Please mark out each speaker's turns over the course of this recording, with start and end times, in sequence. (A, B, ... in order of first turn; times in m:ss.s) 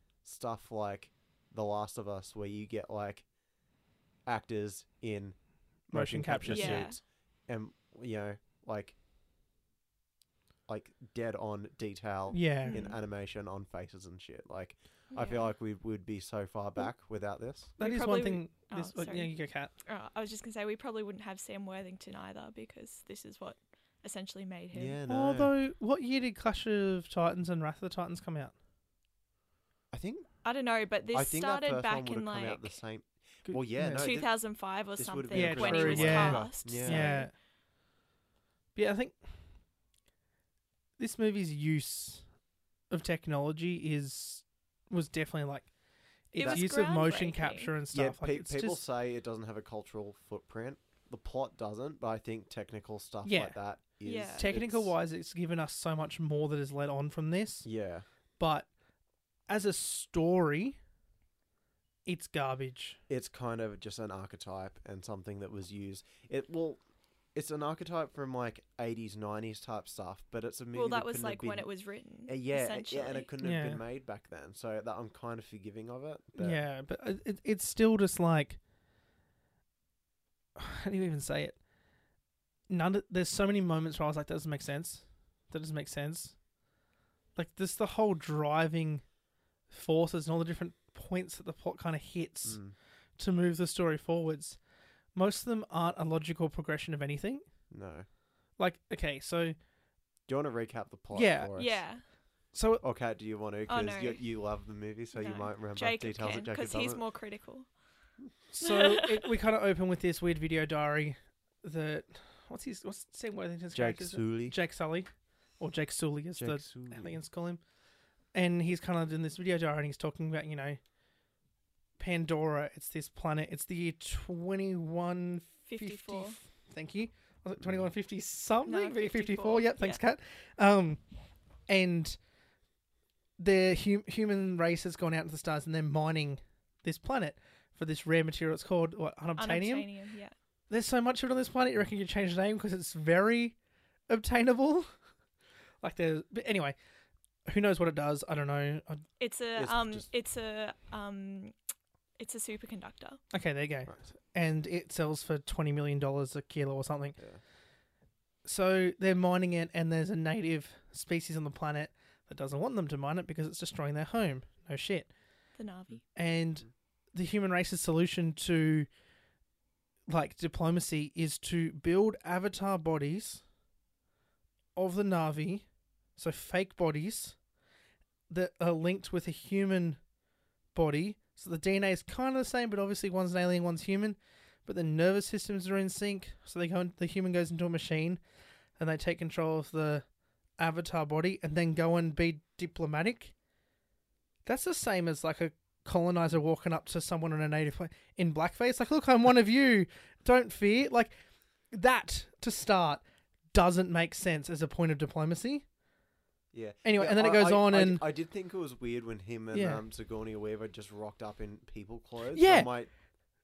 0:00.2-0:03.3 A
0:04.2-0:09.0 A
0:05.9-0:06.9 B
0:06.5-0:07.0 C
0:10.7-0:17.7 A
0:12.3-0:12.8 B
0:12.6-0:13.0 C
0:15.1-0:15.5 C
0:17.8-0:25.0 C
0:17.8-0:19.7 B
0:24.7-0:25.5 A
0:25.1-0:28.5 B
0:29.9-0:30.3 A
0:30.4-0:32.8 C
0:31.1-0:37.2 A
0:33.4-0:34.1 B
0:33.8-0:37.3 C
0:35.3-0:37.3 B
0:38.8-0:39.2 B
0:41.0-0:42.2 B
0:42.9-0:45.7 B
0:46.3-0:48.8 B
0:46.3-0:47.7 C
0:46.4-0:46.7 A
0:47.9-0:54.9 A
0:53.2-0:53.6 B
0:54.0-0:54.5 C
0:54.4-0:57.7 B
0:57.6-0:58.0 A
0:58.4-0:58.7 B
0:59.5-1:00.8 B
1:02.1-1:03.0 B
1:03.1-1:06.8 A
1:07.3-1:11.7 A
1:10.7-1:13.3 C
1:12.3-1:16.6 A
1:13.4-1:13.8 B
1:16.4-1:18.6 B
1:20.6-1:21.6 B
1:22.7-1:26.4 B
1:27.4-1:29.0 B
1:29.7-1:32.6 B
1:32.4-1:32.8 A
1:33.2-1:34.6 B
1:35.1-1:37.4 B
1:37.7-1:38.1 A
1:38.6-1:39.6 B
1:40.3-1:41.8 A
1:41.1-1:41.6 B
1:41.6-1:42.0 C
1:42.5-1:42.8 B
1:42.8-1:47.0 A
1:43.7-1:44.2 C
1:45.1-1:47.7 C
1:48.5-1:57.6 B
1:48.6-1:49.3 C
1:53.7-1:54.6 A
1:56.4-1:57.2 A
1:58.3-2:00.8 B
2:02.0-2:11.0 B
2:05.7-2:06.4 C
2:07.6-2:07.9 A
2:08.7-2:10.0 C
2:11.7-2:12.2 B
2:13.4-2:19.9 B
2:19.4-2:20.3 C
2:20.7-2:23.6 B
2:24.1-2:24.9 B
2:25.8-2:26.8 B
2:27.5-2:29.0 B
2:29.2-2:31.5 C
2:29.6-2:30.1 A
2:32.2-2:33.2 C
2:33.3-2:37.2 B
2:38.4-2:45.1 B
2:45.6-2:46.0 C
2:46.2-2:48.9 B
2:50.1-2:53.4 B
2:54.8-2:55.6 B
2:56.2-2:57.4 B
2:58.3-3:00.0 B
3:00.7-3:08.2 B
3:08.8-3:10.0 B
3:10.6-3:13.3 B
3:14.4-3:21.2 B
3:21.7-3:25.6 B
3:26.5-3:32.9 A
3:26.8-3:28.1 B
3:29.5-3:29.8 B
3:32.3-3:32.7 B